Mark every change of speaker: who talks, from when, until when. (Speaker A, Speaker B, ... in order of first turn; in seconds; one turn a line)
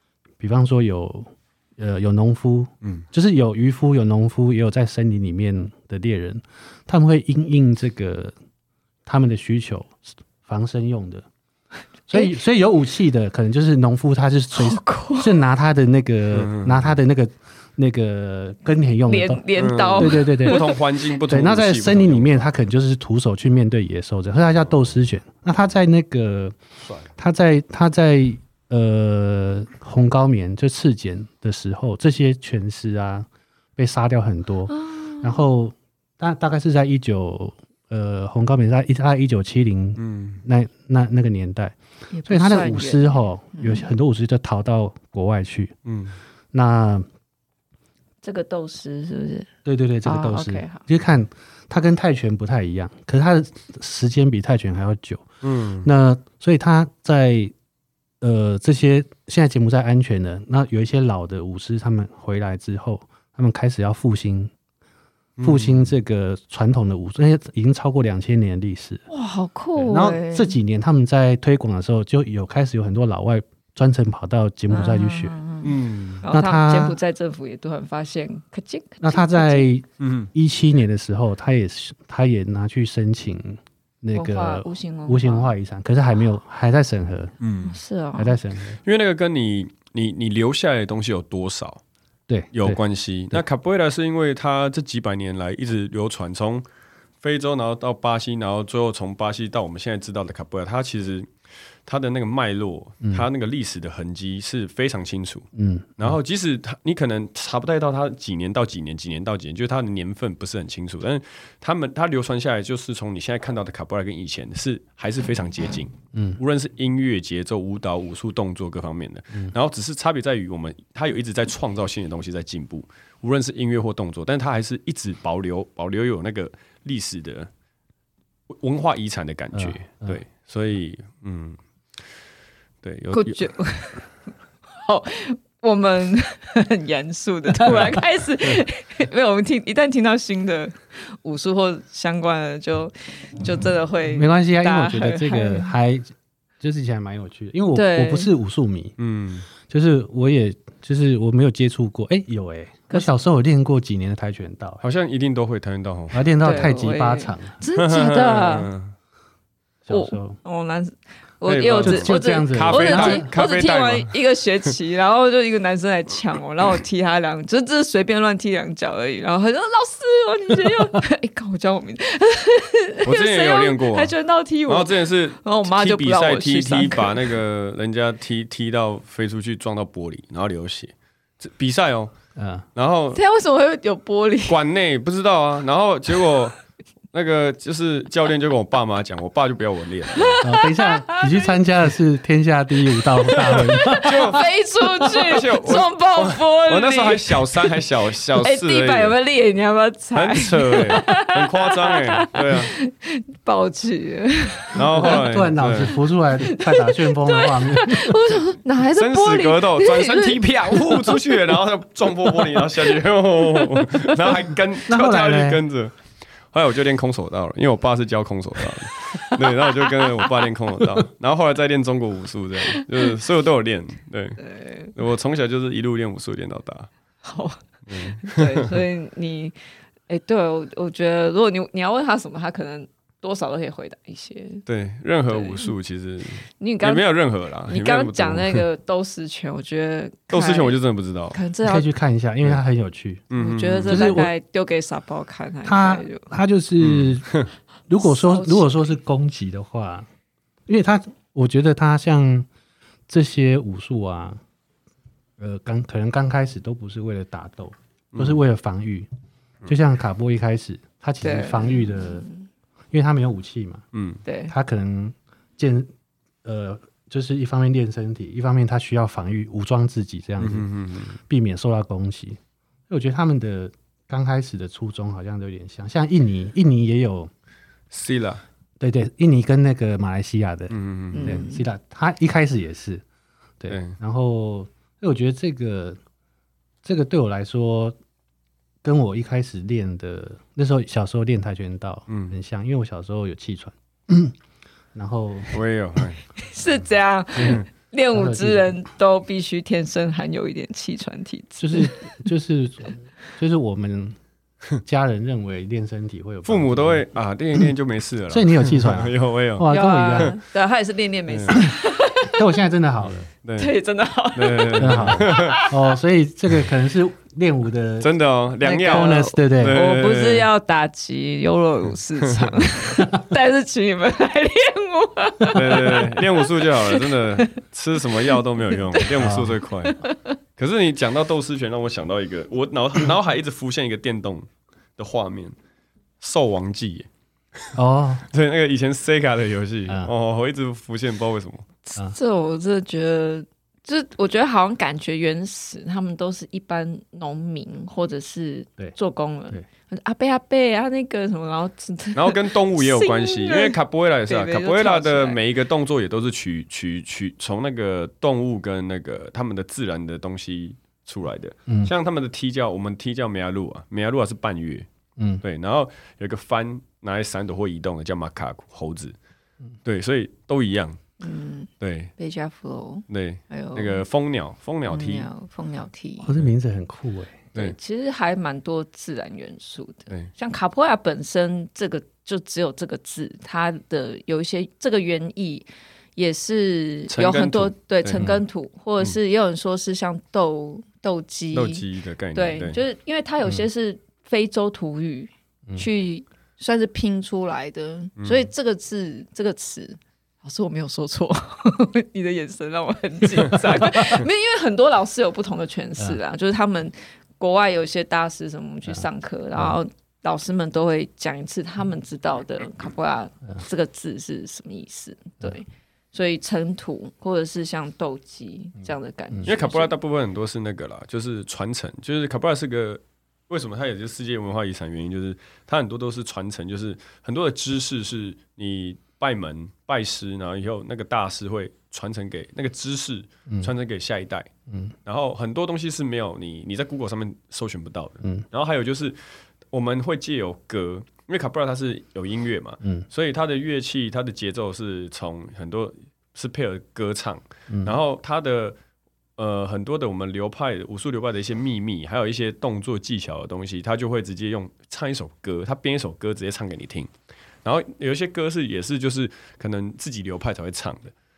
Speaker A: 0.4-8.3
Speaker A: 9.1-11.3
Speaker A: 12.1-26.6
Speaker B: 14.5-15.4
Speaker C: 16.3-16.9
Speaker B: 19.1-20.8
Speaker C: 19.6-22.5
Speaker A: 27.2-41.8
Speaker B: 34.7-35.5
Speaker C: 40.0-40.4
Speaker B: 42.1-43.9
Speaker A: 42.3-45.8
Speaker C: 45.9-46.2
Speaker A: 46.5-47.1
Speaker B: 48.2-49.5
Speaker A: 49.6-55.3
Speaker B: 50.0-50.9
Speaker C: 55.4-55.9
Speaker A: 55.8-57.5
Speaker A: 58.2-64.5
Speaker C: 65.4-65.9
Speaker A: 65.4-69.0
Speaker B: 69.1-70.6
Speaker A: 69.8-75.3
Speaker B: 74.7-79.7
Speaker C: 75.6-76.2
Speaker A: 76.3-77.0
Speaker A: 79.0-87.3
Speaker C: 80.0-80.3
Speaker B: 84.1-85.5
Speaker C: 87.4-87.8
Speaker B: 87.6-88.4
Speaker A: 88.2-88.8
Speaker C: 88.8-91.8
Speaker A: 92.3-92.8
Speaker C: 92.5-96.7
Speaker C: 97.2-101.3
Speaker C: 101.9-105.5
Speaker A: 105.5-106.2
Speaker C: 106.0-127.5
Speaker A: 116.1-116.4
Speaker C: 128.5-131.6
Speaker A: 129.5-130.2
Speaker C: 132.8-133.5
Speaker B: 133.1-134.1
Speaker B: 134.7-145.7
Speaker A: 137.6-138.0
Speaker A: 144.1-149.0
Speaker B: 147.8-148.3
Speaker C: 149.0-149.5
Speaker A: 149.6-154.8
Speaker C: 154.8-156.3
Speaker A: 156.1-157.6
Speaker B: 156.4-158.7
Speaker C: 157.8-158.9
Speaker A: 159.8-160.4
Speaker B: 159.9-177.4
Speaker C: 161.4-164.2
Speaker A: 161.9-163.3
Speaker C: 173.1-174.1
Speaker C: 174.7-182.1
Speaker A: 182.4-182.7
Speaker C: 182.8-183.2
Speaker B: 183.1-184.6
Speaker C: 184.5-186.6
Speaker C: 187.1-190.4
Speaker B: 190.2-191.5
Speaker A: 190.4-194.2
Speaker B: 193.2-197.8
Speaker C: 193.9-199.2
Speaker B: 198.4-205.2
Speaker C: 200.2-202.7
Speaker C: 204.7-206.0
Speaker A: 204.9-208.4
Speaker B: 206.4-211.3
Speaker C: 208.9-216.0
Speaker B: 212.3-212.7
Speaker B: 213.4-214.3
Speaker A: 214.9-215.6
Speaker C: 216.5-226.9
Speaker B: 219.2-220.4
Speaker B: 222.7-223.1
Speaker B: 224.4-224.9
Speaker B: 227.2-227.6
Speaker C: 227.9-228.8
Speaker B: 228.2-229.6
Speaker B: 230.1-234.6
Speaker C: 234.7-238.7
Speaker B: 235.3-235.7
Speaker B: 236.6-237.1
Speaker B: 237.7-240.8
Speaker C: 240.3-241.4
Speaker B: 241.3-241.9
Speaker A: 241.7-243.3
Speaker C: 243.3-244.2
Speaker B: 243.3-246.3
Speaker A: 243.9-244.3
Speaker A: 245.7-250.1
Speaker C: 246.8-247.5
Speaker B: 248.0-248.9
Speaker A: 250.7-252.5
Speaker A: 253.1-254.4
Speaker A: 255.4-259.1
Speaker C: 258.1-258.4
Speaker A: 259.7-262.3
Speaker B: 261.2-262.5
Speaker A: 262.9-263.9
Speaker C: 263.9-264.2
Speaker B: 264.2-264.5
Speaker A: 264.5-265.9
Speaker A: 266.4-277.3
Speaker C: 270.4-271.2
Speaker C: 277.9-278.4
Speaker A: 278.8-283.0
Speaker C: 280.7-281.4
Speaker B: 281.1-281.6
Speaker A: 283.6-286.0
Speaker C: 283.7-284.0
Speaker A: 286.8-287.9
Speaker A: 288.8-294.4
Speaker C: 292.1-292.4
Speaker A: 294.9-295.5
Speaker C: 295.5-296.2
Speaker B: 296.4-302.2
Speaker A: 298.1-298.8
Speaker A: 301.6-304.2
Speaker A: 304.8-307.1
Speaker C: 306.4-310.4
Speaker A: 308.3-310.4
Speaker B: 309.7-312.4
Speaker C: 311.3-311.6
Speaker A: 312.3-313.2
Speaker C: 313.1-313.7
Speaker B: 313.6-315.8
Speaker C: 314.3-315.6
Speaker A: 314.8-318.1
Speaker C: 318.0-320.5
Speaker B: 318.6-327.5
Speaker A: 318.8-319.8
Speaker C: 322.2-322.6
Speaker A: 323.0-323.2
Speaker C: 325.5-330.0
Speaker B: 328.1-330.4
Speaker A: 329.1-329.6
Speaker C: 330.6-334.5
Speaker C: 335.0-335.6
Speaker C: 336.2-337.7
Speaker A: 337.8-338.3
Speaker C: 338.3-341.7
Speaker A: 339.9-340.1
Speaker B: 341.9-355.4
Speaker C: 352.1-364.9
Speaker A: 361.7-361.9
Speaker A: 365.2-365.4
Speaker C: 365.4-369.1
Speaker C: 369.9-371.0
Speaker B: 371.2-374.0
Speaker C: 371.8-372.1
Speaker C: 373.1-375.3
Speaker B: 374.9-376.3
Speaker A: 376.2-377.5
Speaker B: 377.6-419.9
Speaker C: 387.1-388.3
Speaker A: 388.2-388.4
Speaker C: 391.5-392.8
Speaker C: 398.2-398.5
Speaker A: 408.9-409.8
Speaker C: 419.5-434.5
Speaker A: 434.7-434.9
Speaker C: 435.1-448.8
Speaker A: 447.7-447.9
Speaker C: 449.4-457.1
Speaker C: 457.6-461.1